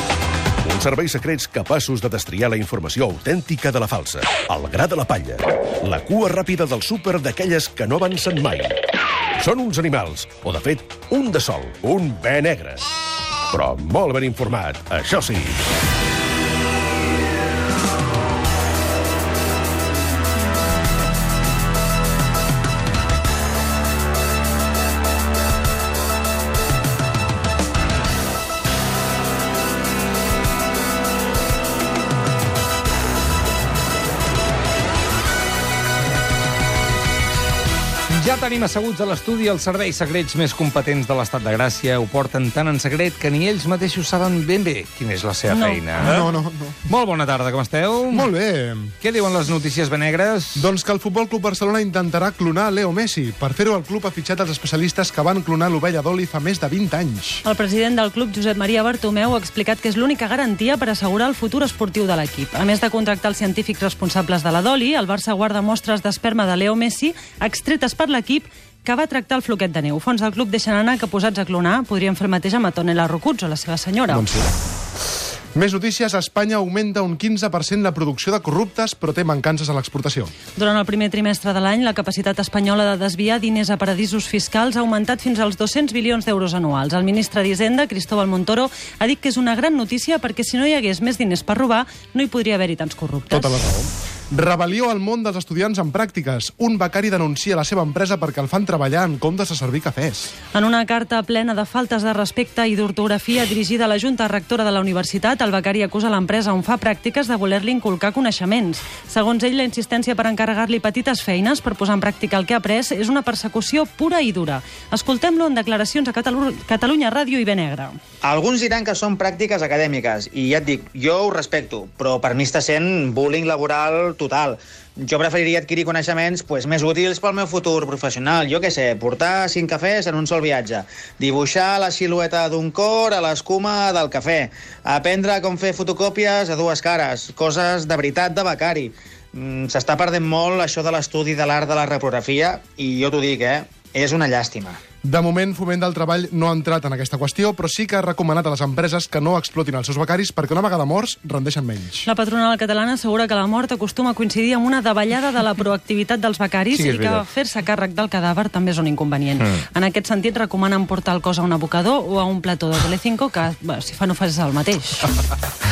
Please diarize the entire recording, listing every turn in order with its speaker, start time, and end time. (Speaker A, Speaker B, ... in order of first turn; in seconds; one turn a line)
Speaker A: 0.6-8.8
Speaker A: 9.4-12.9
Speaker A: 13.5-15.6
Speaker B: 38.1-46.3
Speaker C: 45.5-45.9
Speaker D: 46.0-46.8
Speaker B: 46.9-48.3
Speaker D: 48.1-48.9
Speaker B: 49.0-50.7
Speaker D: 50.6-57.4
Speaker C: 57.5-74.3
Speaker D: 74.1-74.5
Speaker D: 75.5-80.3
Speaker C: 80.6-93.5
Speaker D: 93.3-100.3
Speaker C: 100.5-118.0
Speaker E: 118.2-144.8
Speaker D: 145.0-152.1
Speaker C: 152.1-165.1
Speaker B: 156.7-157.2